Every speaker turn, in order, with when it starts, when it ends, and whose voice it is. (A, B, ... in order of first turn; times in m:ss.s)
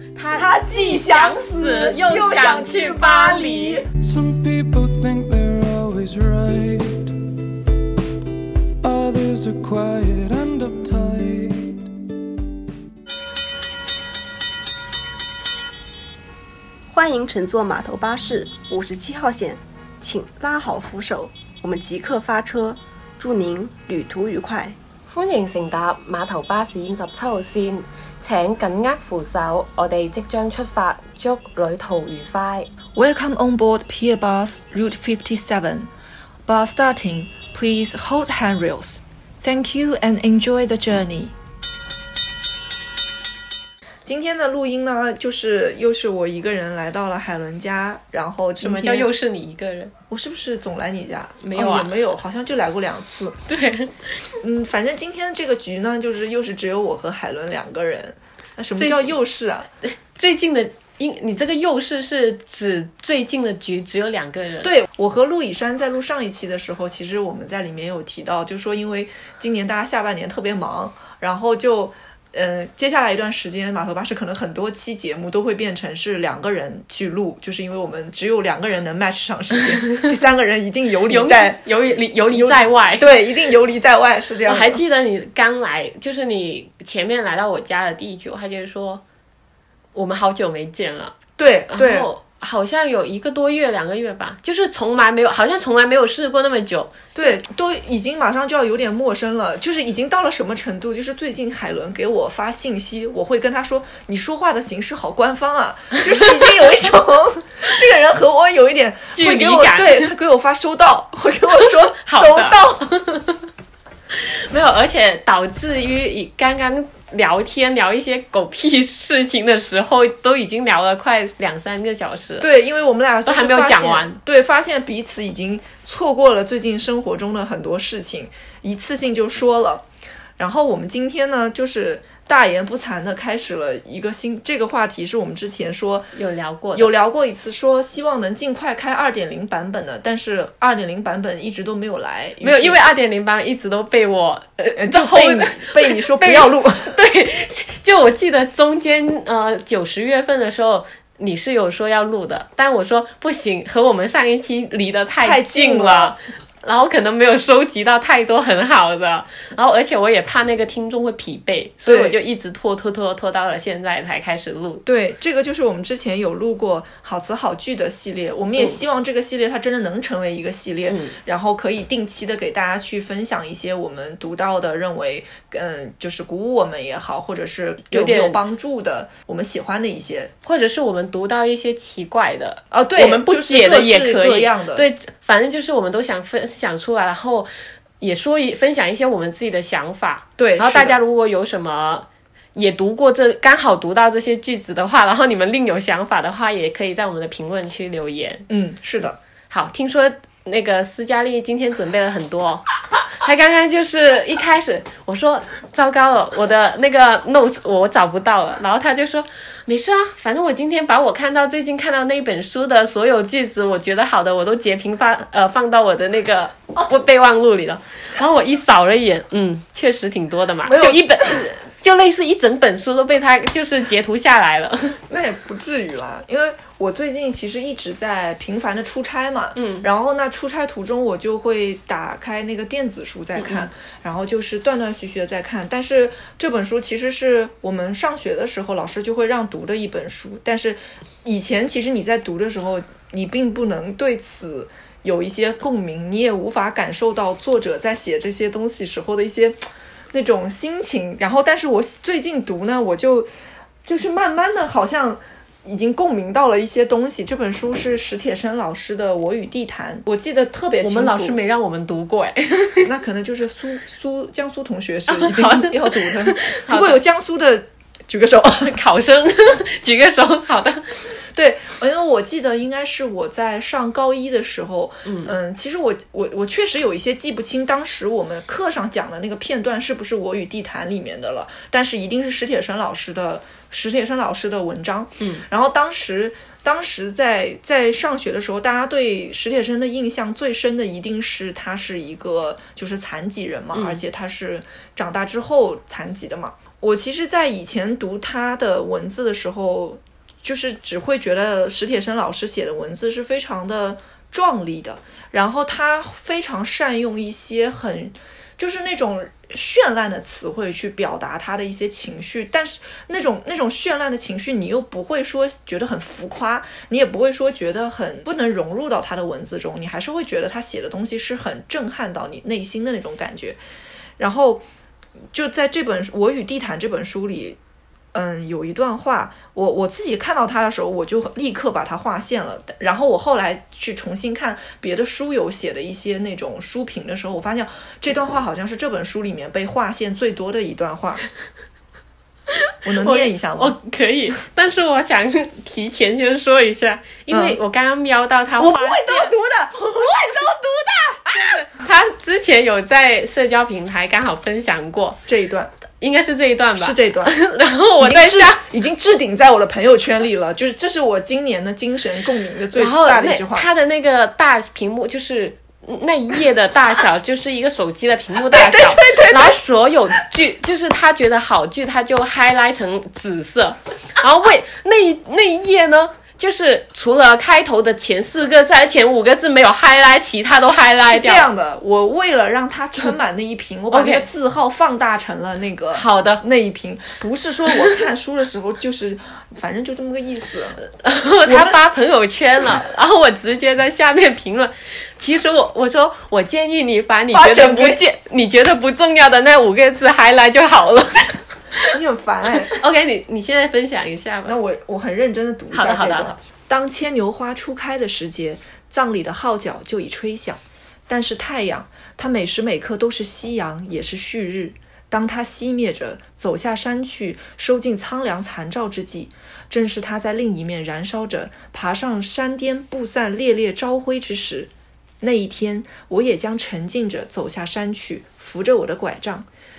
0:00.2-0:03.8 A
0:00.3-0:03.8 B
0:04.0-0:07.1 C
0:08.8-0:11.8 C
0:16.9-0:24.8 D
0:25.1-0:32.7 A
0:32.9-0:35.9 B
0:36.5-0:41.3 B
0:44.0-0:49.1 B
0:48.6-0:49.9 A
0:50.1-0:53.4 B
0:51.4-0:51.9 A
0:53.5-0:54.3 A
0:54.4-0:59.7 B
0:58.8-0:59.0 A
0:59.8-1:04.7 A
1:04.6-1:21.6 B
1:21.1-1:23.1 A
1:22.3-1:24.8 B
1:24.4-1:29.0 A
1:29.9-1:31.2 A
1:31.4-1:32.1 B
1:31.7-1:37.4 A
1:37.1-1:52.8 B
1:49.1-1:50.1 A
1:51.6-1:53.4 A
1:54.1-2:02.5 A
2:02.4-2:09.8 B
2:03.2-2:04.2 A
2:10.4-2:16.1 B
2:16.1-2:16.9 A
2:16.7-2:22.8 B
2:22.4-2:44.8 A
2:24.7-2:27.0 B
2:35.2-2:36.1 B
2:41.8-2:42.2 B
2:44.8-3:00.3 B
2:50.9-2:51.2 A
2:57.9-2:58.4 A
3:00.4-3:07.5 A
3:02.7-3:04.8 B
3:08.0-3:18.5 A
3:10.4-3:11.0 B
3:18.5-3:19.2 B
3:19.5-3:45.0 A
3:40.7-3:41.0 B
3:45.1-4:09.6 B
3:49.5-3:49.8 A
3:53.4-3:53.6 A
4:10.1-4:13.3 B
4:13.8-4:21.4 B
4:20.8-4:22.9 A
4:22.8-4:28.8 B
4:25.1-4:27.0 A
4:28.6-4:30.9 A
4:31.3-5:23.6 B
4:35.0-4:35.3 A
4:45.2-4:45.4 A
4:53.7-4:54.0 A
5:24.2-5:24.6 B
5:25.3-5:27.6 B
5:28.1-5:41.3 B
5:42.5-5:49.3 A
5:42.8-5:43.8 B
5:47.3-5:47.6 B
5:48.6-5:51.5 B
5:51.3-5:55.2 A
5:55.3-5:55.7 B
5:56.0-5:58.6 A
5:56.8-5:57.3 B
5:58.0-6:03.7 B
6:02.7-6:21.4 A
6:08.5-6:09.6 B
6:21.0-6:30.8 B
6:23.9-6:24.2 A
6:25.9-6:26.4 A
6:30.8-6:41.9 A
6:31.4-6:31.8 B
6:37.3-6:38.0 B
6:41.9-6:42.8 B
6:42.7-6:44.6 A
6:44.4-7:04.7 B
6:45.7-6:46.4 A
7:05.2-7:09.5 B